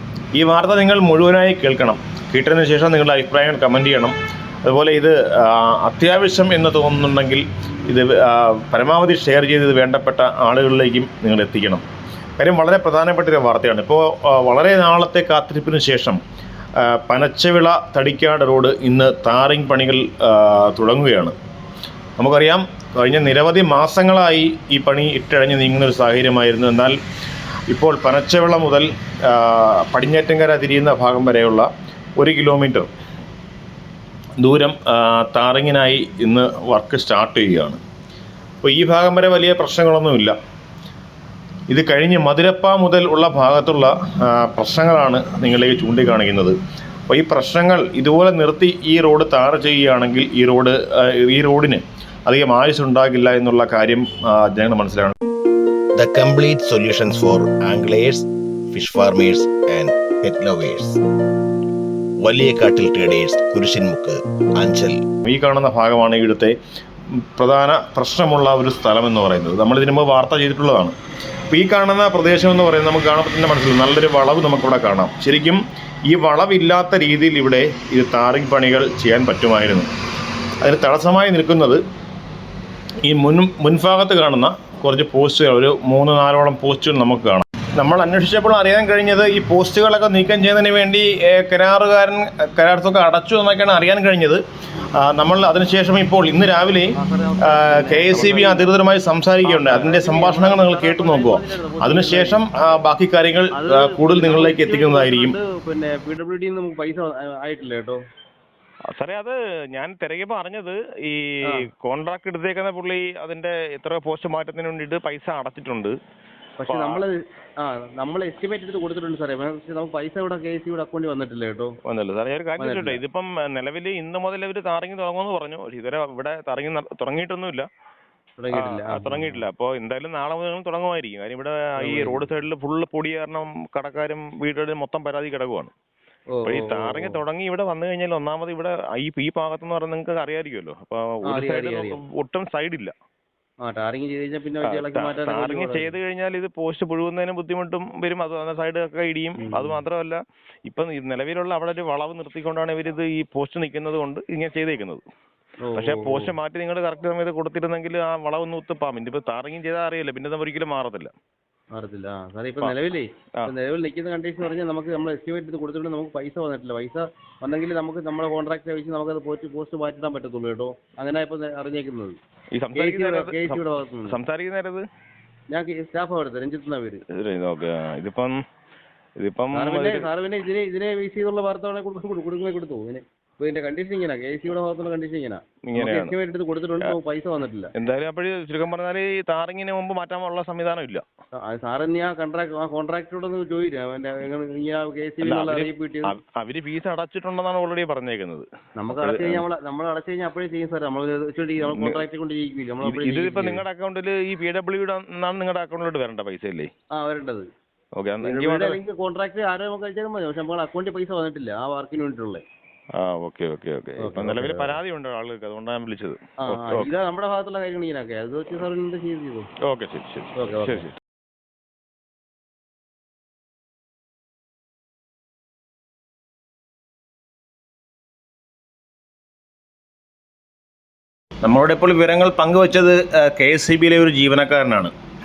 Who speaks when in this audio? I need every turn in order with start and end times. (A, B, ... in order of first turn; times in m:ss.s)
0:00.3-0:11.8 A
0:12.4-0:16.2 A
0:16.8-0:21.4 A
0:22.2-0:27.0 A
0:27.7-0:32.9 A
0:34.4-0:37.8 A
0:38.6-0:40.4 A
0:41.7-0:46.6 A
0:47.1-0:55.1 A
0:55.9-1:01.0 B
1:02.2-1:05.0 B
1:05.2-1:06.6 A
1:07.4-1:10.9 A
1:11.5-1:19.9 A
1:20.6-1:21.8 A
1:23.0-1:34.4 A
1:35.0-1:45.4 A
1:37.0-1:38.7 C
1:39.4-1:42.8 C
1:43.5-1:48.0 C
1:48.9-1:56.0 A
1:56.6-2:01.7 C
1:56.6-1:57.0 A
2:01.8-2:07.7 A
2:02.6-2:03.0 C
2:08.4-2:09.4 C
2:08.5-2:15.7 A
2:11.8-2:12.2 C
2:16.3-2:17.2 C
2:16.4-2:22.9 A
2:21.3-2:22.0 C
2:23.6-2:25.9 C
2:24.6-2:35.0 A
2:29.4-2:29.8 C
2:35.6-2:36.3 C
2:35.7-2:41.1 A
2:41.7-2:52.2 C
2:52.5-2:54.8 A
2:52.7-2:54.2 C
2:55.5-2:57.0 C
2:57.1-2:58.4 A
2:59.2-3:00.1 A
2:59.5-3:07.7 C
3:05.6-3:06.2 A
3:07.7-3:11.0 A
3:11.4-3:16.1 C
3:15.2-3:19.4 A
3:18.8-3:23.6 C
3:21.6-3:22.0 A
3:22.8-3:26.7 A
3:26.9-3:27.4 C
3:28.0-3:28.8 A
3:28.2-3:32.4 C
3:33.0-3:36.9 A
3:34.0-3:34.8 C
3:36.4-3:39.5 C
3:39.6-3:41.0 A
3:40.4-3:40.9 C
3:51.4-3:54.9 A